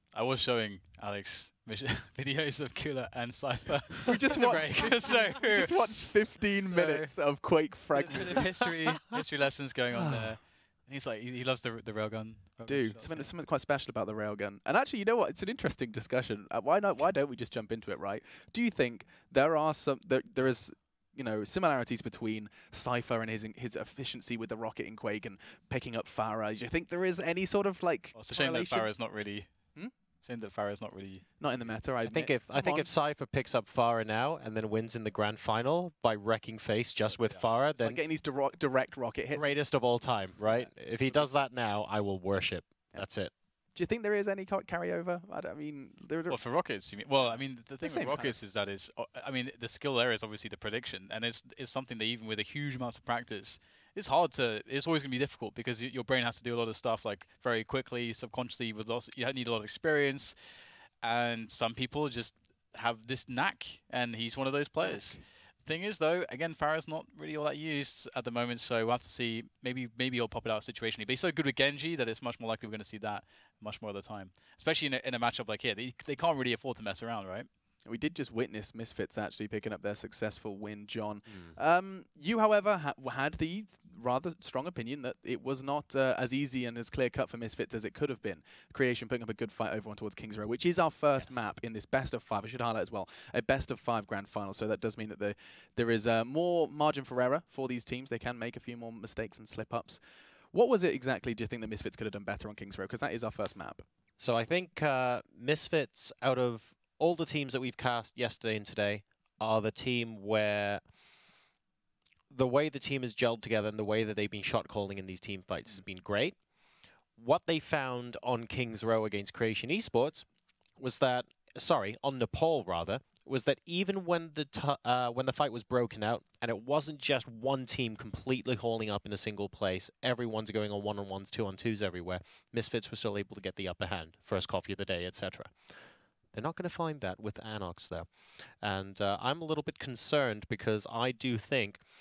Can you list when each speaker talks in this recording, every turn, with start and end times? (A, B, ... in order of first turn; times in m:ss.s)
0:00.1-0:05.8 A
0:04.0-0:08.5 B
0:06.7-0:07.1 A
0:08.0-0:13.3 A
0:12.7-0:28.9 B
0:28.1-0:29.5 A
0:30.2-0:31.2 A
0:31.4-0:32.9 B
0:32.1-0:38.0 C
0:37.8-0:39.6 B
0:39.3-0:43.3 C
0:40.5-0:41.3 B
0:43.8-0:46.4 B
0:46.3-1:00.3 A
0:47.8-0:48.4 B
1:01.0-1:17.5 A
1:17.9-1:40.0 B
1:40.5-1:43.8 B
1:44.2-1:50.8 C
1:52.3-1:56.4 C
1:57.2-2:00.2 C
2:00.8-2:15.5 C
2:16.3-2:18.1 C
2:18.6-2:21.8 C